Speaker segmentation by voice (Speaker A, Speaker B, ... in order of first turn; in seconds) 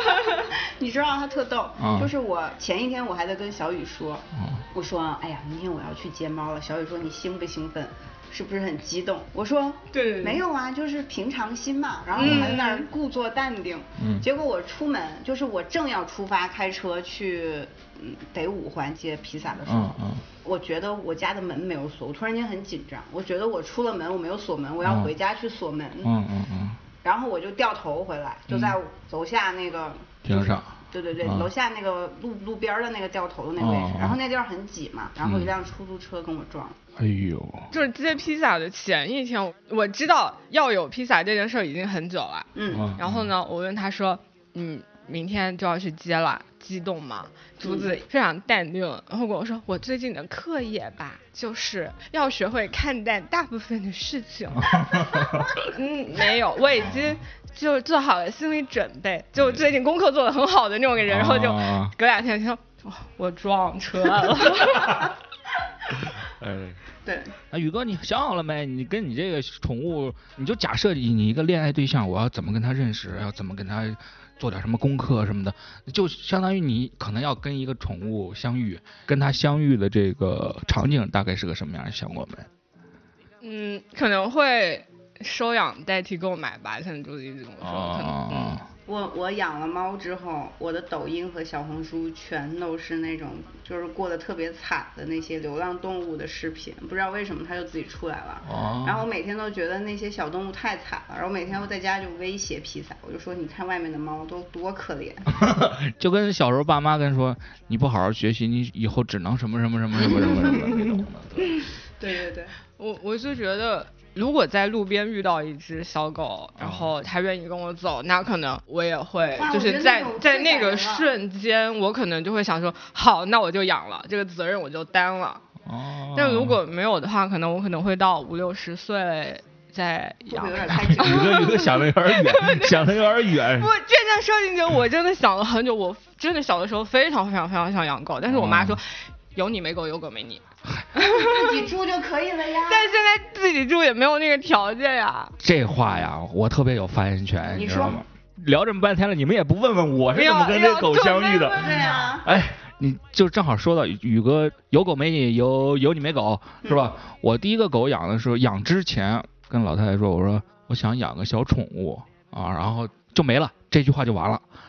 Speaker A: 0.3-26.1, 27.0-36.8, 42.5-42.9, 47.6-47.9, 67.0-67.3, 88.9-105.4, 112.0-112.5, 119.4-121.1, 130.3-131.6, 141.0-142.9, 147.5-148.0, 151.6-152.3, 156.6-156.9
Speaker B: 1.8-2.1, 12.2-12.6, 14.0-14.2, 19.6-20.2, 24.8-25.1, 26.0-26.8, 28.5-28.8, 30.2-31.5, 33.6-34.2, 35.2-35.5, 37.0-37.7, 42.7-43.3, 54.6-55.6, 56.8-57.2, 59.4-59.6, 61.1-61.9, 66.1-66.8, 67.5-82.5, 87.6-88.6, 98.4-99.0, 105.3-111.5, 116.6-116.9, 125.6-126.6, 130.7-133.7, 138.3-138.8, 145.4-164.4
Speaker C: 9.9-10.4, 12.2-12.9, 37.7-65.1, 83.4-88.6, 110.2-111.0, 112.8-125.4, 126.1-140.4, 140.9-141.7, 142.7-145.3, 150.1-151.9